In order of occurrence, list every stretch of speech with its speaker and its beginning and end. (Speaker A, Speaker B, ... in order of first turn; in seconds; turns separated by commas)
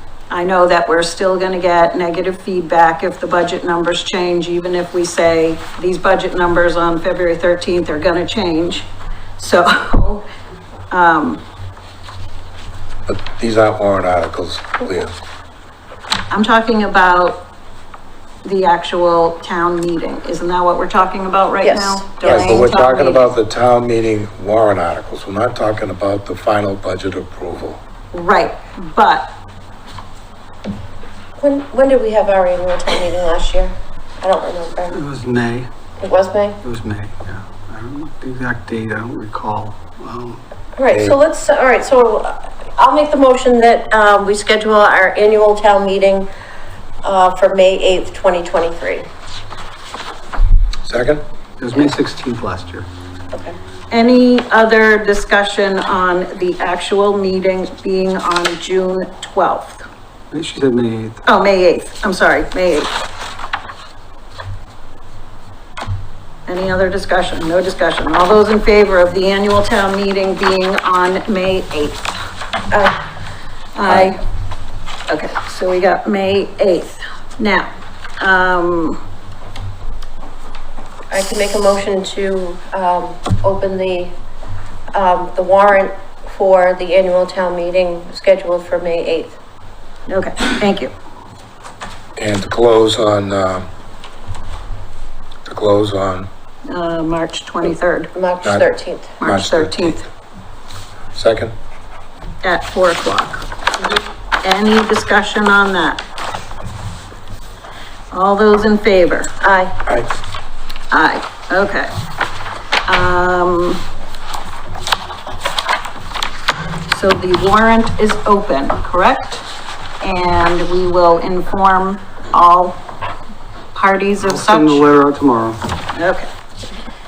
Speaker A: 0.3-10.3, Speaker A: 10.9-11.4, Speaker B: 13.1-15.2, Speaker A: 16.3-17.5, Speaker A: 18.4-23.3, Speaker C: 21.6-22.6, Speaker B: 22.2-27.8, Speaker A: 28.1-29.3, Speaker C: 31.4-35.0, Speaker D: 34.9-35.7, Speaker C: 36.0-36.6, Speaker D: 36.6-40.4, Speaker C: 40.8-46.3, Speaker B: 40.9-41.2, Speaker C: 47.0-49.1, Speaker B: 50.8-51.2, Speaker D: 51.6-52.9, Speaker C: 53.3-53.6, Speaker A: 53.9-59.9, Speaker D: 60.3-61.2, Speaker A: 61.2-62.9, Speaker A: 66.5-72.1, Speaker C: 72.7-73.0, Speaker A: 73.8-74.2, Speaker A: 75.1-77.7, Speaker A: 78.2-79.0, Speaker C: 81.1-84.1, Speaker C: 84.9-89.4, Speaker A: 90.1-90.9, Speaker B: 92.2-93.7, Speaker B: 95.5-96.3, Speaker A: 96.7-98.1, Speaker C: 98.1-99.2, Speaker A: 99.2-100.0, Speaker B: 99.2-100.0, Speaker B: 101.1-101.5, Speaker A: 102.4-103.4, Speaker A: 104.4-106.0, Speaker A: 108.1-109.3, Speaker C: 109.4-109.8, Speaker A: 110.9-111.9, Speaker A: 112.9-113.8, Speaker A: 116.9-119.5, Speaker A: 120.0-122.8, Speaker A: 123.7-124.9, Speaker D: 124.2-125.6, Speaker A: 125.9-126.3